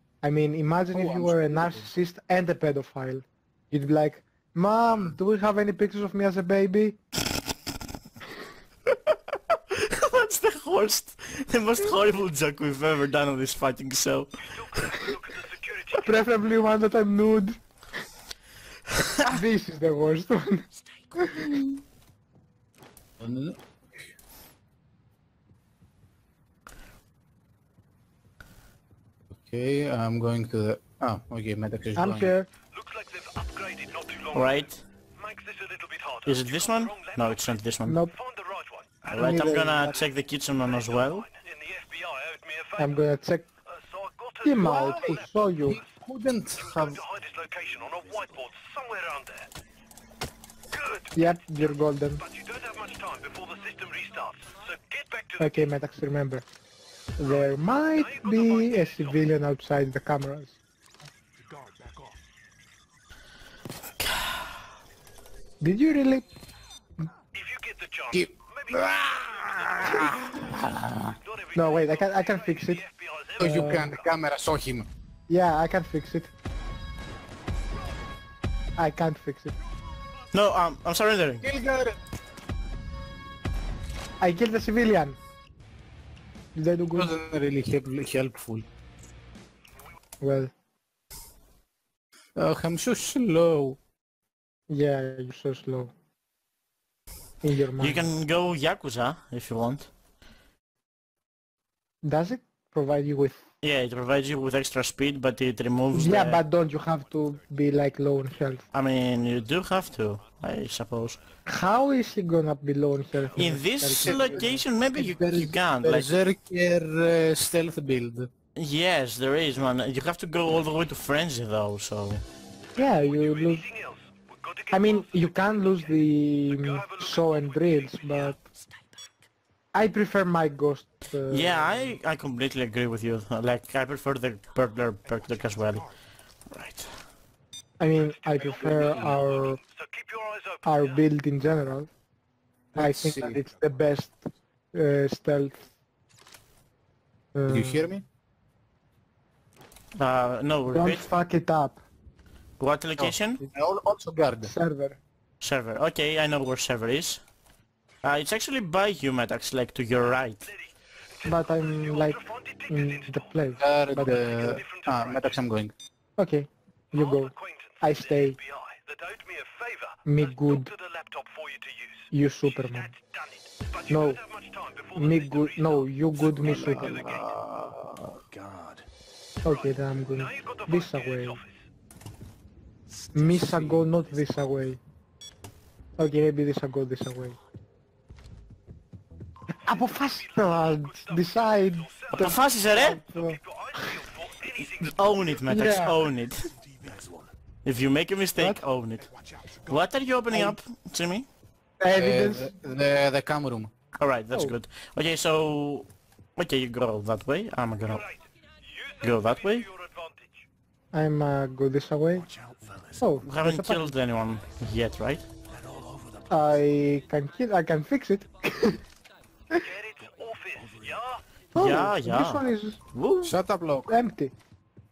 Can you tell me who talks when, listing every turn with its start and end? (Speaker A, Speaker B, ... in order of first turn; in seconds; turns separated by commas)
Speaker A: 0.2-7.0, Speaker B: 0.9-1.9, Speaker C: 9.1-14.6, Speaker D: 14.4-16.2, Speaker A: 15.9-17.6, Speaker C: 18.9-19.2, Speaker A: 19.2-21.8, Speaker B: 23.2-23.6, Speaker B: 29.4-32.3, Speaker A: 31.9-32.5, Speaker D: 32.7-34.6, Speaker C: 34.3-34.8, Speaker D: 35.1-39.0, Speaker C: 36.2-38.0, Speaker A: 37.9-38.1, Speaker C: 39.0-41.2, Speaker A: 39.1-40.0, Speaker D: 40.6-42.9, Speaker A: 42.8-43.5, Speaker D: 43.7-45.9, Speaker A: 44.4-45.8, Speaker B: 44.6-47.0, Speaker D: 46.6-49.5, Speaker E: 47.5-48.3, Speaker D: 50.7-51.6, Speaker A: 51.1-52.2, Speaker D: 52.2-55.7, Speaker A: 55.4-56.5, Speaker A: 57.2-60.6, Speaker D: 57.9-59.2, Speaker C: 64.0-64.4, Speaker A: 65.6-66.2, Speaker D: 67.3-70.0, Speaker B: 68.1-71.2, Speaker D: 71.2-73.8, Speaker A: 71.5-72.8, Speaker B: 73.4-74.9, Speaker A: 73.4-74.0, Speaker A: 75.3-76.3, Speaker A: 78.8-79.5, Speaker C: 80.3-81.5, Speaker B: 81.4-82.0, Speaker A: 84.2-85.2, Speaker A: 86.5-87.1, Speaker B: 86.9-88.6, Speaker A: 90.2-90.5, Speaker B: 92.3-93.8, Speaker A: 94.7-95.9, Speaker A: 97.4-98.1, Speaker C: 97.8-99.9, Speaker A: 102.0-103.4, Speaker C: 103.6-106.4, Speaker A: 105.9-108.6, Speaker E: 106.0-111.4, Speaker C: 108.7-111.2, Speaker A: 111.5-114.7, Speaker C: 113.3-116.2, Speaker B: 114.0-118.3, Speaker C: 118.5-122.2, Speaker A: 122.8-123.7, Speaker D: 122.8-128.4, Speaker A: 124.7-128.4, Speaker A: 129.7-131.9, Speaker C: 131.3-135.9, Speaker C: 136.5-136.9, Speaker A: 137.8-139.6, Speaker B: 138.4-139.1, Speaker D: 138.4-141.0, Speaker A: 140.6-141.9, Speaker A: 142.7-145.7, Speaker B: 142.8-143.4, Speaker A: 147.3-147.9, Speaker B: 147.5-148.0, Speaker C: 149.9-151.1, Speaker A: 150.7-151.8, Speaker C: 152.6-153.4, Speaker B: 153.0-154.5, Speaker A: 154.4-155.0, Speaker C: 155.4-157.2, Speaker C: 158.0-160.5, Speaker D: 161.1-165.4, Speaker A: 161.2-164.6, Speaker B: 163.6-165.7, Speaker A: 166.2-168.4, Speaker D: 166.9-177.3, Speaker A: 170.1-170.7, Speaker A: 172.1-172.9, Speaker A: 173.9-174.2, Speaker A: 174.9-177.2, Speaker B: 176.4-178.2, Speaker E: 178.3-178.8, Speaker A: 179.4-181.4, Speaker D: 180.1-181.6, Speaker E: 182.9-184.5, Speaker A: 183.1-184.8, Speaker B: 183.2-183.8, Speaker A: 186.0-187.4, Speaker A: 189.5-194.1, Speaker D: 189.6-195.4, Speaker C: 192.1-193.0, Speaker C: 194.6-196.5, Speaker A: 195.4-196.0, Speaker C: 197.6-201.3, Speaker A: 198.4-198.6, Speaker A: 200.3-200.6, Speaker A: 201.8-202.5, Speaker B: 201.9-203.7, Speaker C: 203.9-208.1, Speaker D: 207.8-210.4, Speaker C: 209.0-209.7, Speaker A: 210.9-212.3, Speaker E: 212.2-213.2, Speaker A: 213.0-213.9, Speaker C: 213.2-215.2, Speaker E: 215.4-217.1, Speaker A: 216.3-218.8, Speaker D: 219.6-221.2, Speaker E: 220.4-221.2, Speaker A: 221.5-222.8, Speaker C: 221.6-223.4, Speaker B: 223.2-223.9, Speaker A: 223.9-224.3